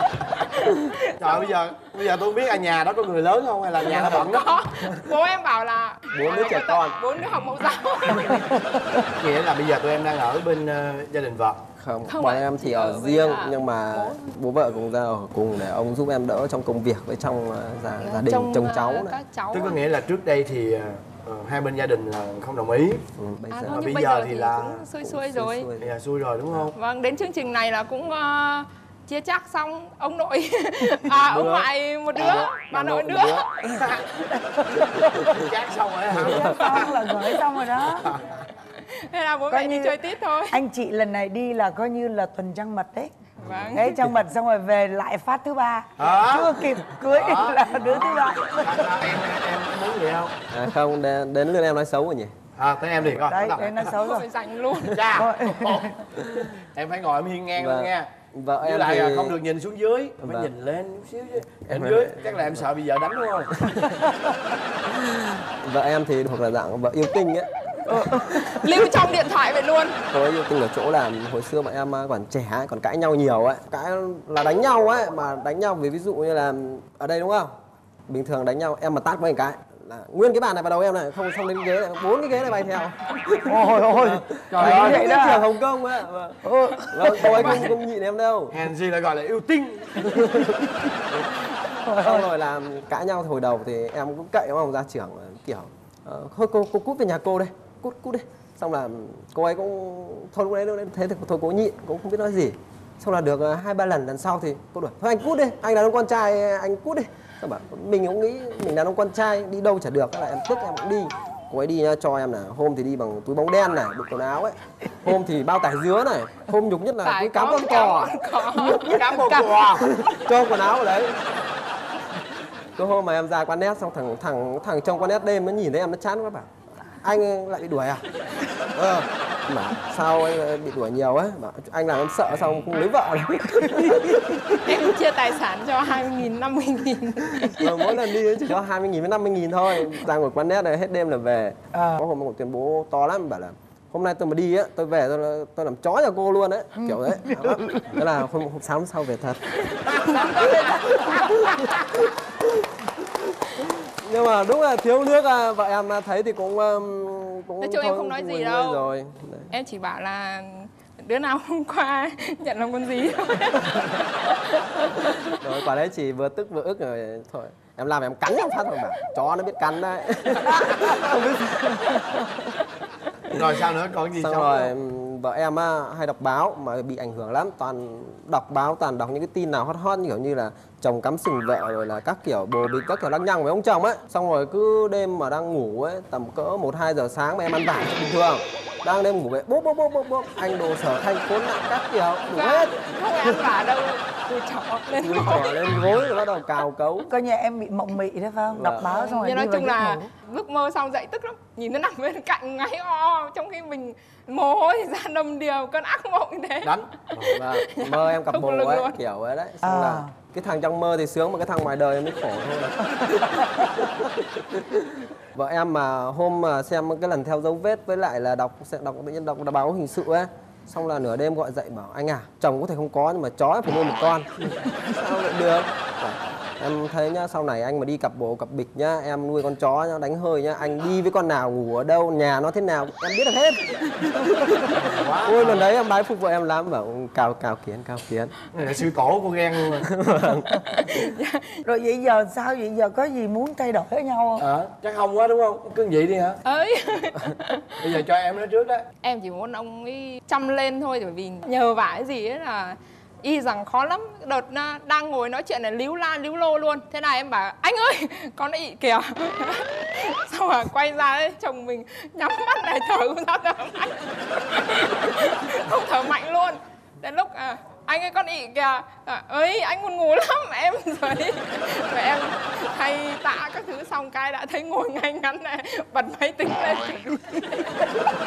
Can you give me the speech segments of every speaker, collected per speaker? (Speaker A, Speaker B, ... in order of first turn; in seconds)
Speaker A: 0.2-1.6, 3.9-8.5, 12.1-13.6, 18.0-19.8, 23.5-25.7, 26.8-33.5, 38.8-40.6, 43.4-43.9, 53.8-55.0, 68.5-70.0, 117.0-119.7, 134.6-138.0, 157.6-158.9, 159.5-164.0, 192.3-195.7, 198.9-209.0, 240.7-241.6, 246.4-247.7, 249.0-278.1
Speaker B: 1.2-5.0, 9.1-11.6, 19.5-23.1, 23.6-24.8, 25.8-26.8, 31.1-31.7, 32.2-34.0, 35.2-37.0, 46.0-50.4, 52.6-53.8, 54.9-58.1, 58.6-63.8, 84.5-85.2, 87.3-87.7, 88.5-90.5, 118.8-119.9, 173.3-174.7, 206.6-207.3, 234.7-235.7, 238.5-239.9, 244.4-246.4, 247.8-248.8
Speaker C: 6.1-7.0, 11.8-19.2, 23.2-24.0, 25.0-26.0, 43.5-43.9, 50.5-52.4, 57.6-59.4, 60.2-60.5, 61.6-62.6, 65.5-68.2, 70.1-77.6, 78.1-88.6, 92.0-118.7, 119.8-121.2, 122.8-128.1, 128.6-134.3, 137.6-150.1, 153.8-159.5, 165.3-172.3, 174.2-193.4, 195.0-197.1, 198.5-198.9, 207.3-238.3, 239.8-240.6
Speaker D: 8.3-8.6, 34.5-35.4, 36.1-38.1, 39.5-43.1, 43.7-49.2, 53.3-54.3, 55.1-56.0, 67.9-68.4, 83.5-85.5, 86.4-87.6, 91.8-92.3, 146.8-147.8, 150.1-151.3, 197.1-200.1, 209.6-210.1, 241.7-244.5